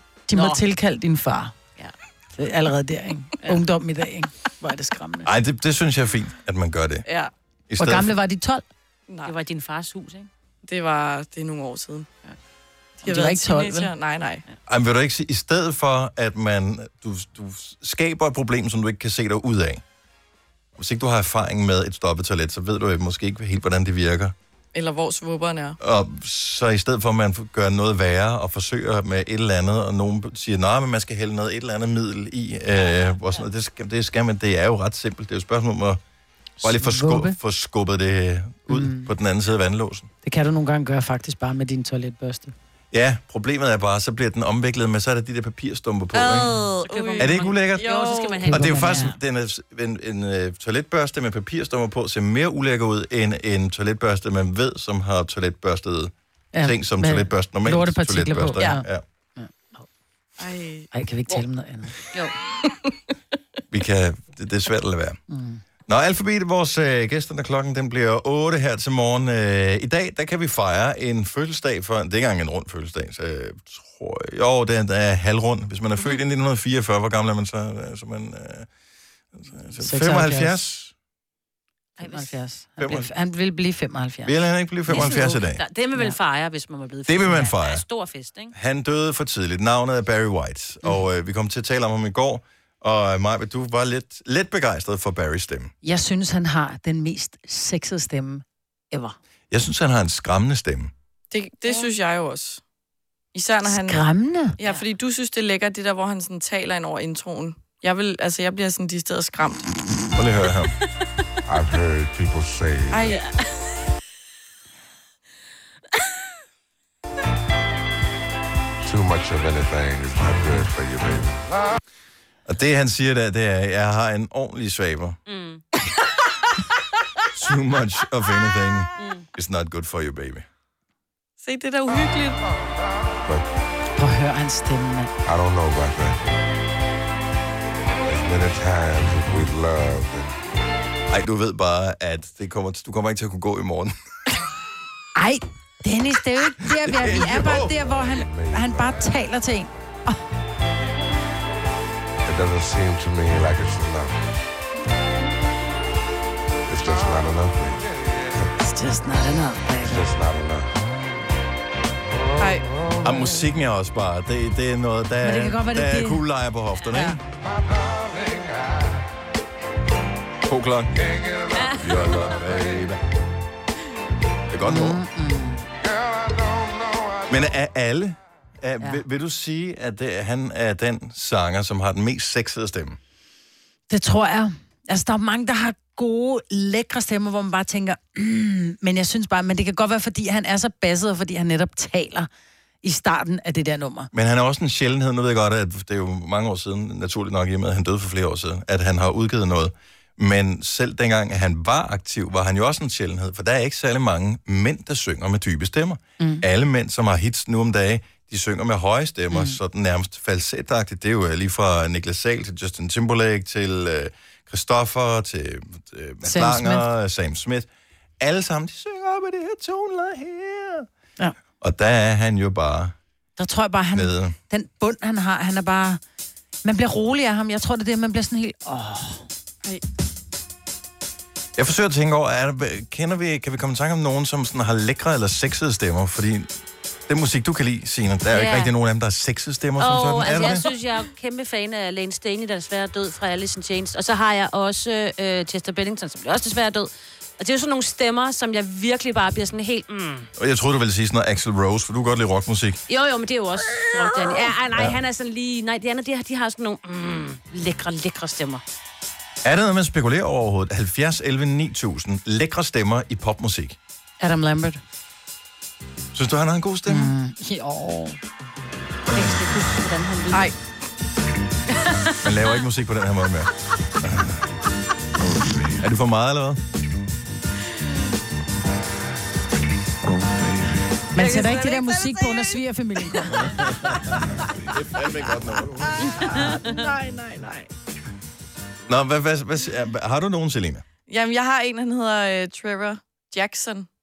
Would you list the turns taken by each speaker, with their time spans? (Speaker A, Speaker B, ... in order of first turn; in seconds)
Speaker A: 0.3-1.6, 2.4-5.3, 7.8-8.6, 13.0-13.9, 36.6-37.4, 38.7-39.1, 40.2-42.5, 48.4-49.1, 56.5-58.9, 59.4-59.8, 60.9-61.9, 65.3-65.6, 79.8-80.6, 82.0-84.3, 84.9-85.2, 95.8-99.2, 103.7-104.6, 134.0-135.1, 145.2-150.2, 158.6-160.1, 165.2-166.2, 174.6-175.7, 183.9-192.3, 192.8-194.1, 206.2-206.4, 209.3-209.6, 216.2-216.9, 223.4-226.0, 226.6-229.3, 264.2-264.8, 266.9-268.2, 281.1-283.6
Speaker B: 0.3-0.6, 9.2-10.3, 46.3-49.2, 82.0-82.3, 84.9-88.5, 125.3-125.6, 129.0-129.3, 171.6-172.1, 238.3-238.7, 239.8-250.3, 252.9-258.6, 269.1-270.5, 281.2-282.1, 286.1-286.8
Speaker C: 5.2-7.0, 7.7-8.1, 14.7-19.8, 20.8-24.3, 25.8-36.0, 36.6-40.1, 42.9-46.5, 47.2-48.0, 48.5-59.0, 63.7-65.2, 65.9-78.7, 79.4-80.9, 82.8-83.1, 84.3-85.6, 87.1-87.8, 88.5-95.7, 99.5-100.9, 110.2-110.7, 122.5-125.2, 127.3-130.4, 141.1-143.9, 146.8-147.7, 163.0-167.2, 170.5-170.9, 171.7-173.0, 174.5-175.0, 177.3-183.0, 194.1-217.7, 218.2-220.9, 221.6-222.9, 223.9-224.3, 231.6-236.5, 237.1-240.7, 250.4-252.8, 259.4-263.8, 266.1-267.1, 272.2-273.5, 274.0-274.4, 275.8-276.6, 284.7-286.0, 288.9-290.8
Speaker D: 7.1-7.3, 9.1-9.3, 10.6-12.1, 13.0-14.4, 24.7-25.8, 46.1-48.4, 60.4-60.9, 101.3-102.6, 103.3-104.1, 104.6-109.7, 112.9-113.2, 131.4-132.4, 162.4-162.7, 286.4-287.7, 291.1-293.9
Speaker E: 111.5-113.1, 118.8-121.5, 135.2-136.4, 138.1-140.4, 147.2-149.0, 152.2-154.3, 156.7-158.5, 159.8-160.7